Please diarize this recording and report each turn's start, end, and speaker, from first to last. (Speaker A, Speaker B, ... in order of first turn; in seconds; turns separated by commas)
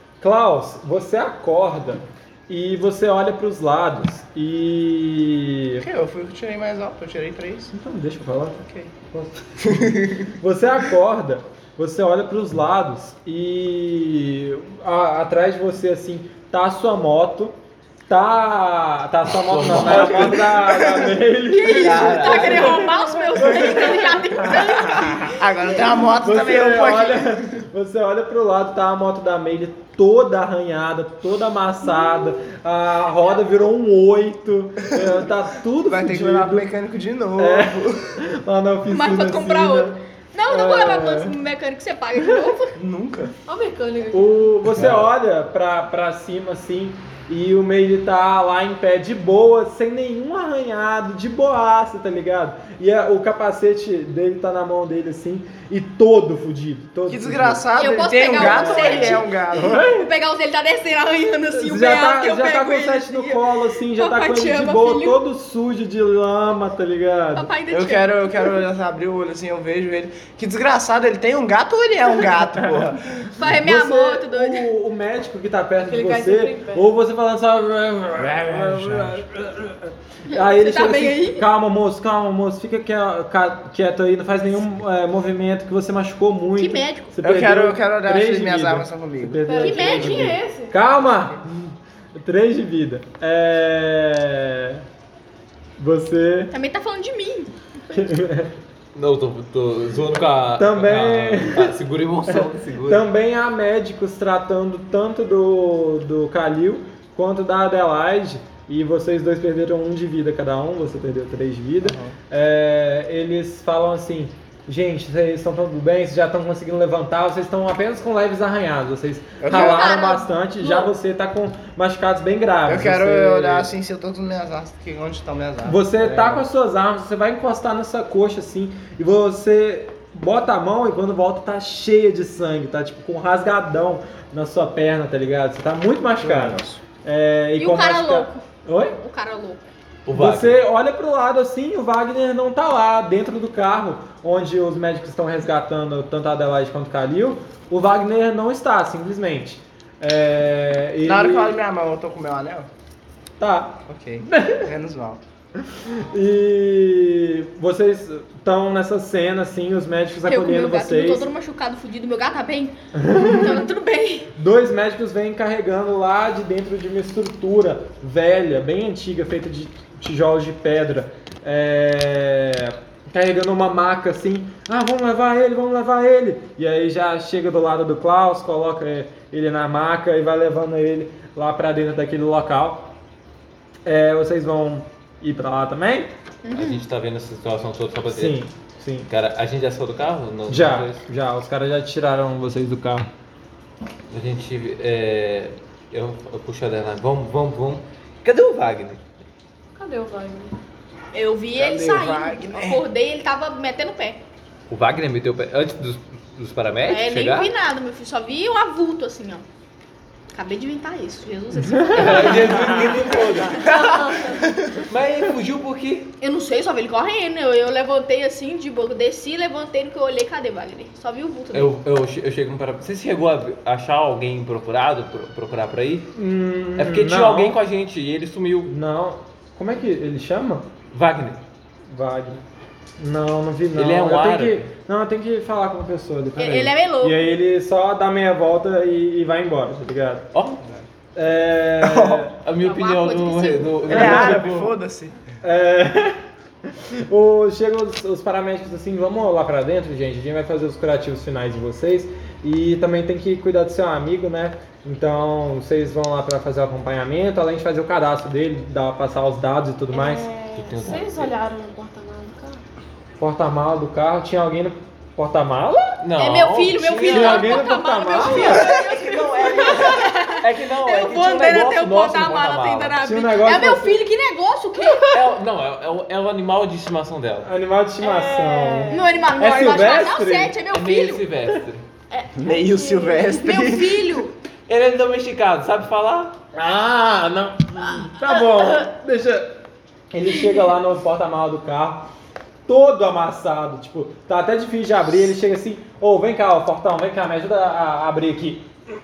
Speaker A: 0.2-5.8, Speaker B: 5.8-7.7, Speaker A: 7.7-17.6, Speaker B: 8.6-8.9, Speaker B: 9.7-10.2, Speaker A: 18.1-25.4, Speaker C: 19.4-20.6, Speaker B: 20.1-21.2, Speaker D: 21.5-25.4, Speaker C: 21.7-22.9, Speaker B: 25.3-27.5, Speaker A: 26.0-36.7, Speaker B: 35.9-38.2, Speaker A: 37.4-40.0, Speaker D: 38.9-42.8, Speaker A: 40.5-41.4, Speaker B: 42.8-43.3, Speaker E: 43.5-44.6, Speaker A: 44.1-57.6, Speaker C: 44.7-45.1, Speaker B: 57.1-59.9, Speaker D: 57.8-65.2, Speaker A: 58.3-60.1, Speaker A: 61.5-67.5, Speaker D: 67.3-68.2, Speaker B: 67.7-73.1, Speaker D: 73.3-74.7, Speaker A: 73.4-94.8, Speaker E: 75.8-76.9, Speaker C: 78.5-79.1, Speaker D: 80.3-81.5, Speaker D: 86.6-87.1, Speaker B: 87.2-89.4, Speaker E: 89.5-90.7, Speaker D: 89.6-90.4, Speaker A: 95.8-96.5, Speaker D: 96.5-97.5, Speaker A: 97.9-98.5, Speaker C: 99.0-103.1, Speaker A: 100.6-101.8, Speaker A: 102.3-123.7, Speaker B: 111.8-112.2, Speaker B: 119.4-120.0, Speaker D: 119.5-120.9, Speaker B: 122.7-126.5, Speaker A: 125.7-139.0, Speaker B: 136.2-136.8, Speaker D: 137.6-138.4, Speaker D: 139.0-139.6, Speaker C: 140.1-140.6, Speaker A: 140.1-151.6, Speaker B: 151.0-152.7, Speaker A: 153.4-154.7, Speaker B: 153.9-155.2, Speaker A: 155.8-161.3, Speaker D: 160.3-164.3, Speaker A: 162.9-163.7, Speaker A: 164.4-182.9, Speaker A: 183.9-186.1, Speaker D: 186.4-186.8, Speaker C: 186.5-188.4, Speaker A: 188.1-189.1, Speaker C: 189.1-191.0, Speaker A: 190.5-193.1, Speaker C: 194.1-199.0, Speaker E: 199.8-200.6, Speaker D: 201.1-204.2, Speaker B: 201.5-202.8, Speaker C: 204.7-207.5, Speaker D: 206.9-209.4, Speaker D: 210.3-213.6, Speaker A: 211.6-213.0, Speaker C: 211.9-213.8, Speaker E: 213.6-214.6, Speaker C: 214.7-216.1, Speaker D: 216.2-221.7, Speaker C: 221.5-226.1, Speaker A: 226.1-227.6, Speaker C: 226.8-228.7, Speaker A: 228.7-230.7, Speaker C: 230.9-231.4, Speaker A: 231.9-232.4, Speaker A: 233.0-240.3, Speaker C: 233.8-234.7, Speaker D: 236.4-237.2, Speaker C: 240.3-240.6, Speaker A: 241.2-242.3, Speaker B: 241.8-242.3, Speaker C: 242.4-244.8, Speaker D: 242.6-243.8, Speaker B: 243.9-245.2, Speaker A: 243.9-244.5, Speaker A: 245.4-246.2, Speaker A: 247.1-260.3, Speaker E: 259.9-262.6, Speaker C: 260.5-261.3, Speaker A: 263.2-266.0, Speaker C: 266.0-267.6, Speaker D: 266.2-275.2, Speaker A: 267.1-268.7, Speaker C: 268.3-273.0, Speaker B: 268.4-269.4, Speaker A: 273.0-274.0, Speaker C: 275.1-277.5, Speaker A: 277.4-280.6, Speaker E: 278.0-279.3, Speaker D: 278.9-281.2, Speaker C: 280.7-281.8, Speaker E: 282.1-283.4, Speaker B: 282.4-284.2, Speaker D: 283.3-284.3, Speaker C: 284.7-286.4, Speaker A: 286.5-289.6, Speaker A: 290.1-292.1, Speaker A: 292.7-298.7